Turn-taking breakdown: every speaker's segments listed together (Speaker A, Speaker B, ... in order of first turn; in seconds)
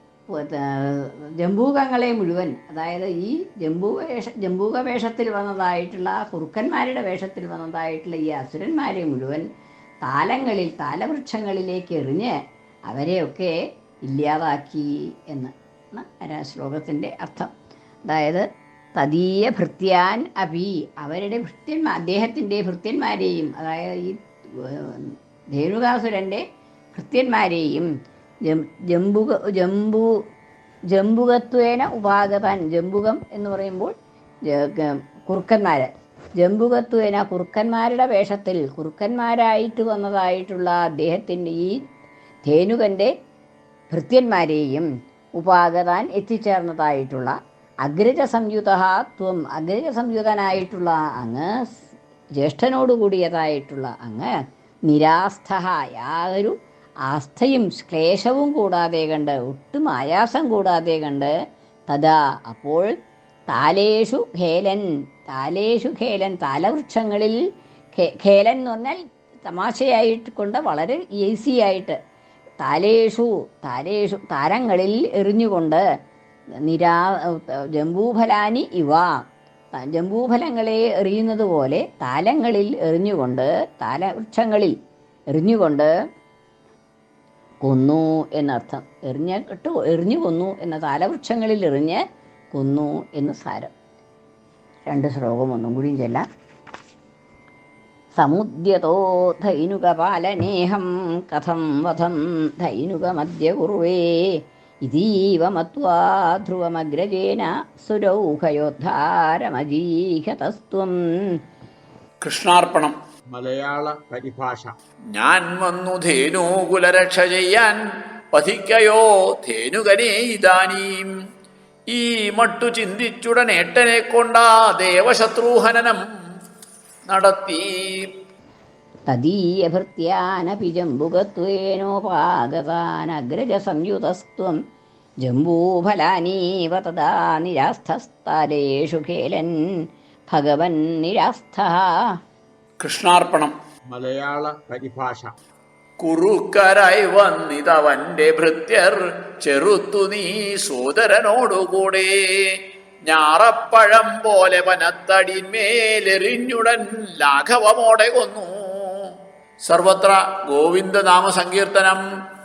Speaker A: 0.3-9.5, 10.0-12.3, 12.9-13.5, 14.0-17.5, 18.1-18.4, 18.9-27.9, 28.4-30.2, 30.9-33.9, 34.5-41.8, 42.4-43.1, 43.9-51.8, 52.4-54.3, 54.9-61.3, 61.9-62.9, 63.5-67.4, 67.9-72.0, 72.6-75.8, 76.6-79.2, 79.7-84.7, 85.3-85.9, 87.6-93.7, 94.8-96.2, 98.2-111.4, 129.1-134.6, 135.2-139.7, 140.3-142.1
Speaker B: 112.2-113.0, 115.1-117.8, 118.3-121.1, 121.9-126.1, 127.1-128.1, 142.8-143.5, 146.0-159.1, 159.7-162.0
Speaker C: 113.3-114.7, 143.9-145.3